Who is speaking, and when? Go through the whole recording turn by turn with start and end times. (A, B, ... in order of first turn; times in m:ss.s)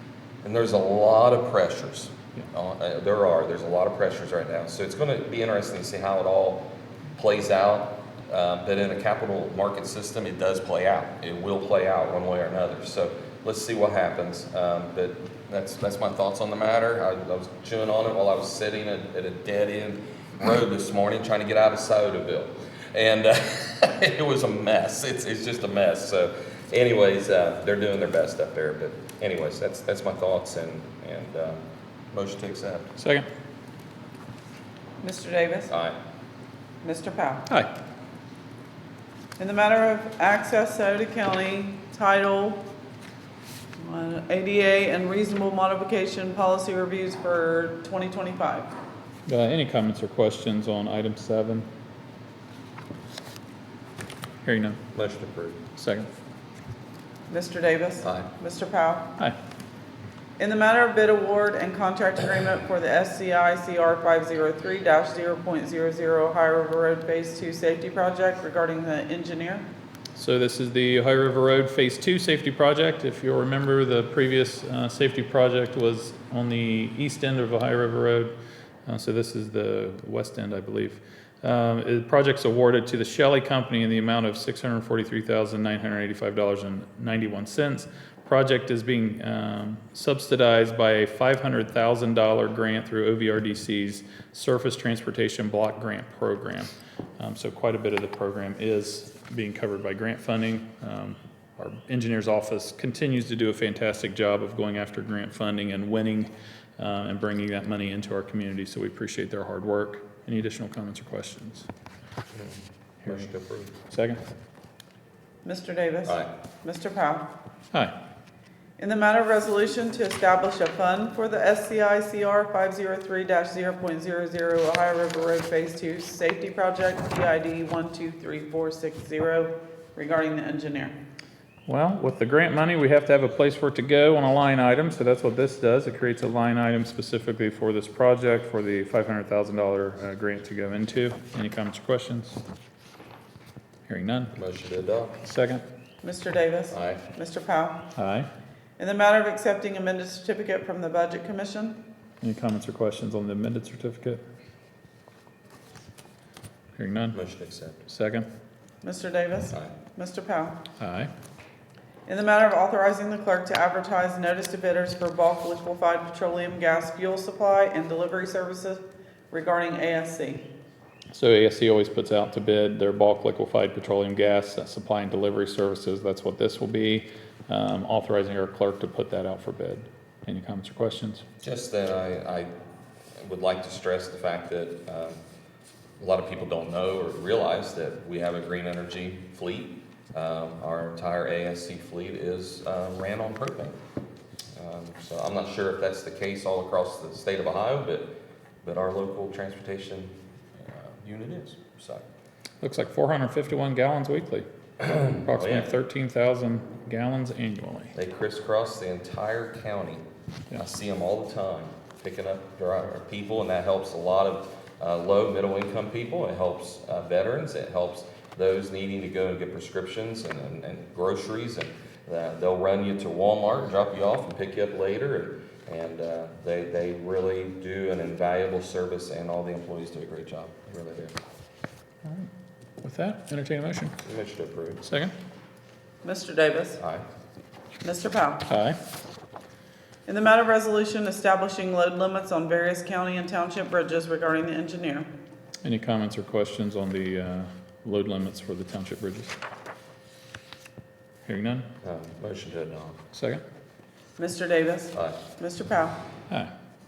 0:00.4-0:06.6 A
0:07.2-0:33.0 A
0:33.0-0:33.3 B
0:35.0-0:35.7 C
0:35.7-0:36.0 A
0:36.8-0:37.5 C
0:39.4-0:42.6 C
0:43.8-0:48.7 C
0:49.3-0:51.7 B
0:54.4-0:54.8 B
0:54.9-0:55.6 A
0:55.7-0:56.1 B
0:57.3-0:59.1 C
0:58.0-0:58.3 A
1:00.4-1:09.7 C
1:10.1-1:18.3 B
1:18.9-1:51.7 B
1:52.3-1:53.7 A
1:53.9-1:54.2 B
1:55.4-1:57.3 C
1:58.8-2:10.9 C
2:11.7-2:22.4 B
2:23.9-2:24.3 B
2:24.3-2:25.2 A
2:25.2-2:25.6 B
2:26.0-2:27.8 C
2:26.7-2:27.0 A
2:28.0-2:28.3 B
2:28.8-2:31.8 C
2:32.2-2:34.2 B
2:36.8-2:37.2 B
2:37.1-2:37.8 A
2:37.9-2:38.3 B
2:38.8-2:40.6 C
2:40.8-2:41.1 B
2:42.1-2:50.4 C
2:51.1-3:01.2 B
3:01.4-3:02.5 A
3:03.2-3:05.2 A
3:06.0-3:13.8 A
3:14.6-3:22.0 A
3:22.6-3:24.5 B
3:24.8-3:25.7 A
3:25.3-3:27.9 B
3:27.9-3:51.2 A
3:52.0-3:52.3 B
3:52.8-3:54.0 B
3:54.0-3:54.8 A
3:54.8-3:55.1 B
3:56.0-3:56.8 C
3:56.8-3:57.1 A
3:57.8-3:58.5 C
3:58.5-3:58.8 B
4:00.1-4:05.1 C
4:05.6-4:09.4 B
4:11.2-4:11.7 B
4:11.8-4:13.0 A
4:13.1-4:13.4 B
4:14.2-4:16.0 C